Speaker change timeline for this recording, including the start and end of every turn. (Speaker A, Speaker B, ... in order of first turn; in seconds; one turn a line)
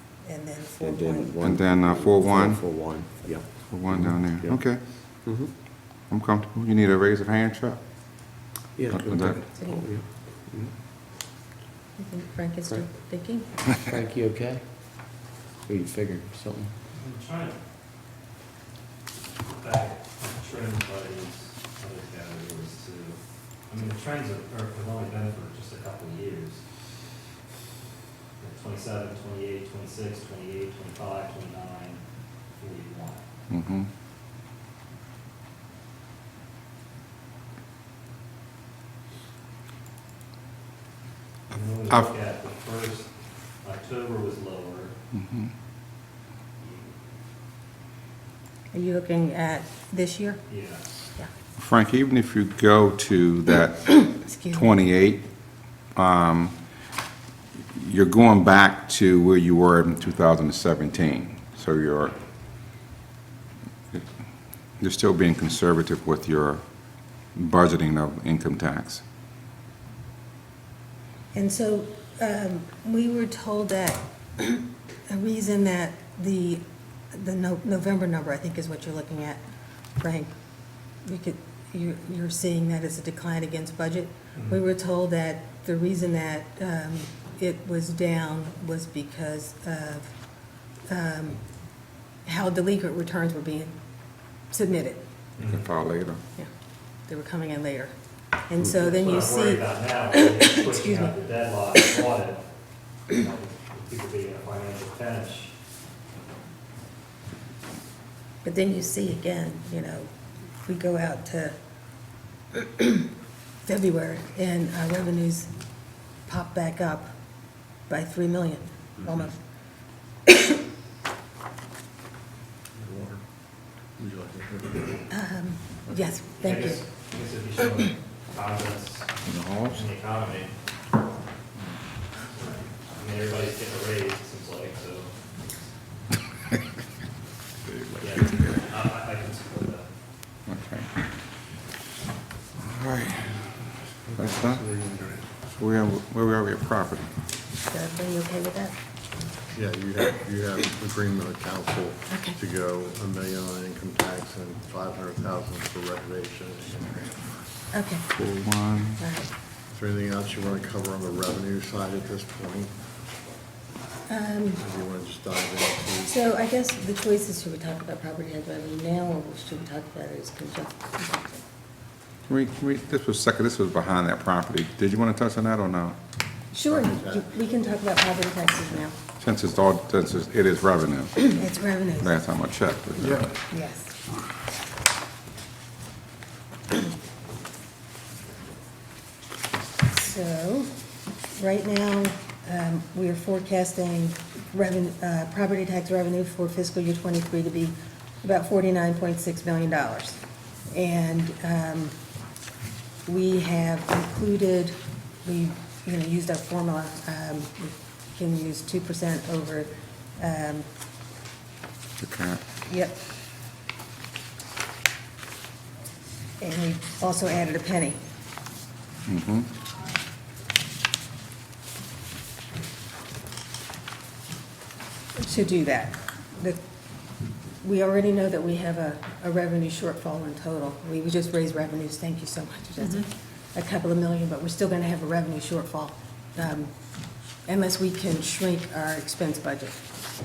Speaker A: 0.2-1.3
Speaker B: 0.8-4.6
Speaker C: 1.4-2.6
Speaker C: 3.7-4.8
Speaker C: 6.1-7.8
Speaker B: 8.8-10.0
Speaker C: 8.9-9.4
Speaker A: 9.5-9.8
Speaker A: 12.0-13.5
Speaker B: 13.7-15.1
Speaker B: 15.7-16.7
Speaker D: 16.9-17.6
Speaker D: 19.5-26.6
Speaker D: 28.4-32.0
Speaker D: 32.6-33.2
Speaker C: 33.5-33.9
Speaker D: 41.5-43.1
Speaker D: 43.6-44.9
Speaker C: 45.1-45.5
Speaker A: 48.7-50.4
Speaker D: 50.5-50.8
Speaker C: 51.6-55.3
Speaker A: 54.1-54.7
Speaker C: 56.0-56.6
Speaker C: 57.7-62.1
Speaker C: 64.8-66.6
Speaker C: 67.3-69.0
Speaker A: 71.3-76.6
Speaker A: 77.1-79.4
Speaker A: 80.0-80.3
Speaker A: 81.0-90.2
Speaker A: 90.9-91.4
Speaker A: 92.2-93.7
Speaker A: 94.5-95.0
Speaker D: 95.4-95.7
Speaker C: 95.4-96.2
Speaker A: 97.1-97.9
Speaker A: 98.4-101.1
Speaker D: 98.7-102.4
Speaker D: 103.1-105.5
Speaker A: 108.4-110.1
Speaker A: 110.6-111.5
Speaker A: 112.5-113.1
Speaker A: 113.6-115.5
Speaker A: 116.3-117.2
Speaker A: 117.9-119.4
Speaker A: 120.3-120.5
Speaker E: 122.8-123.2
Speaker E: 124.0-125.0
Speaker A: 125.1-126.8
Speaker D: 126.4-129.1
Speaker C: 129.2-129.9
Speaker D: 129.7-130.5
Speaker D: 132.3-135.1
Speaker C: 137.7-138.6
Speaker D: 138.0-139.9
Speaker C: 140.5-141.1
Speaker C: 142.6-143.5
Speaker C: 144.2-144.7
Speaker E: 144.5-145.2
Speaker C: 145.5-147.1
Speaker A: 147.7-148.8
Speaker E: 149.5-157.3
Speaker A: 152.1-152.4
Speaker A: 157.7-158.1
Speaker C: 158.1-159.0
Speaker A: 159.0-159.3
Speaker E: 159.7-162.7
Speaker A: 164.1-164.6
Speaker E: 164.6-166.1
Speaker A: 166.0-171.4
Speaker C: 172.3-176.0
Speaker A: 176.5-179.0
Speaker E: 176.7-177.3
Speaker C: 179.2-183.3
Speaker A: 181.3-182.1
Speaker E: 183.0-183.3
Speaker A: 183.5-183.9
Speaker A: 189.9-190.7
Speaker A: 191.3-200.2
Speaker A: 200.7-201.9
Speaker A: 203.1-210.7
Speaker C: 212.0-212.4
Speaker A: 212.7-213.0
Speaker A: 216.4-218.0
Speaker C: 219.1-219.5
Speaker A: 225.2-226.6
Speaker A: 227.6-236.7
Speaker A: 237.4-239.8